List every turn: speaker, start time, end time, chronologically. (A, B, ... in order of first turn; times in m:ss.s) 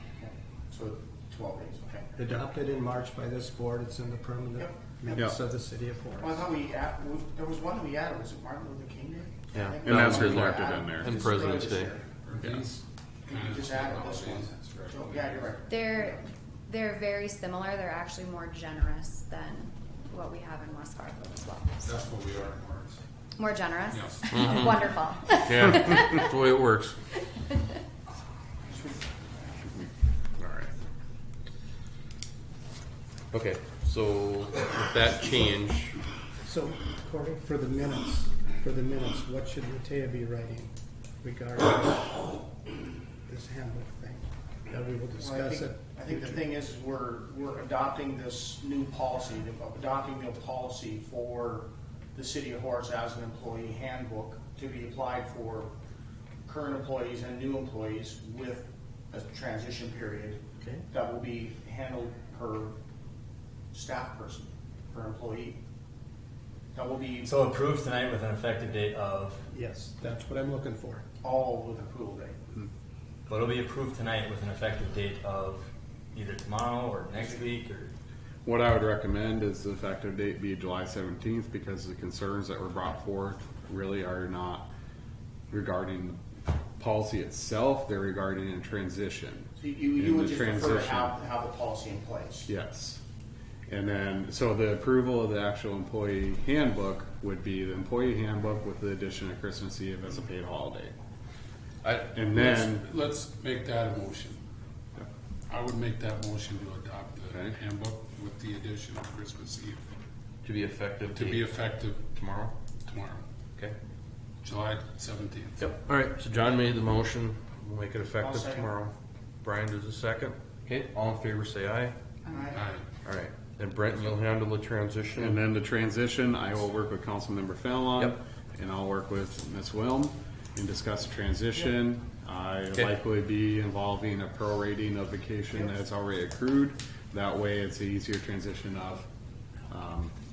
0:00.2-0:02.1 A
0:02.2-0:06.4 B
0:05.1-0:05.4 C
0:06.2-0:12.1 A
0:09.5-0:11.9 D
0:09.8-0:11.3 C
0:12.2-0:15.5 E
0:12.4-0:12.7 C
0:13.2-0:16.2 A
0:15.7-0:16.2 F
0:16.7-0:21.9 F
0:21.8-0:23.0 E
0:23.4-0:26.1 F
0:23.9-0:24.8 E
0:24.3-0:24.8 D
0:25.4-0:27.0 D
0:28.7-0:29.0 A
0:30.4-0:30.7 D
0:33.3-0:36.0 D
0:36.4-0:42.4 B
0:43.2-0:46.4 B
0:45.2-0:55.7 A
0:56.4-1:02.7 A
1:03.7-1:05.6 A
1:06.7-1:07.3 A
1:07.2-1:09.4 G
1:09.5-1:11.0 B
1:11.2-1:12.4 A
1:13.3-1:17.9 G
1:18.4-1:24.7 C
1:25.5-1:26.2 C
1:26.8-1:31.1 C
1:29.6-1:32.5 A
1:32.5-1:33.0 C
1:33.7-1:40.9 C
1:41.8-1:42.1 D
1:42.1-1:42.9 C
1:42.3-1:44.4 E
1:45.5-1:49.8 E
1:50.4-1:51.5 D
1:51.1-1:52.1 E
1:52.1-1:52.5 D
1:52.8-1:53.2 E
1:54.4-1:55.7 E
1:55.6-2:01.9 D
1:58.2-1:58.8 A
2:02.3-2:02.6 A
2:02.5-2:02.8 E
2:03.0-2:05.4 D
2:05.2-2:19.1 C
2:19.7-2:20.1 C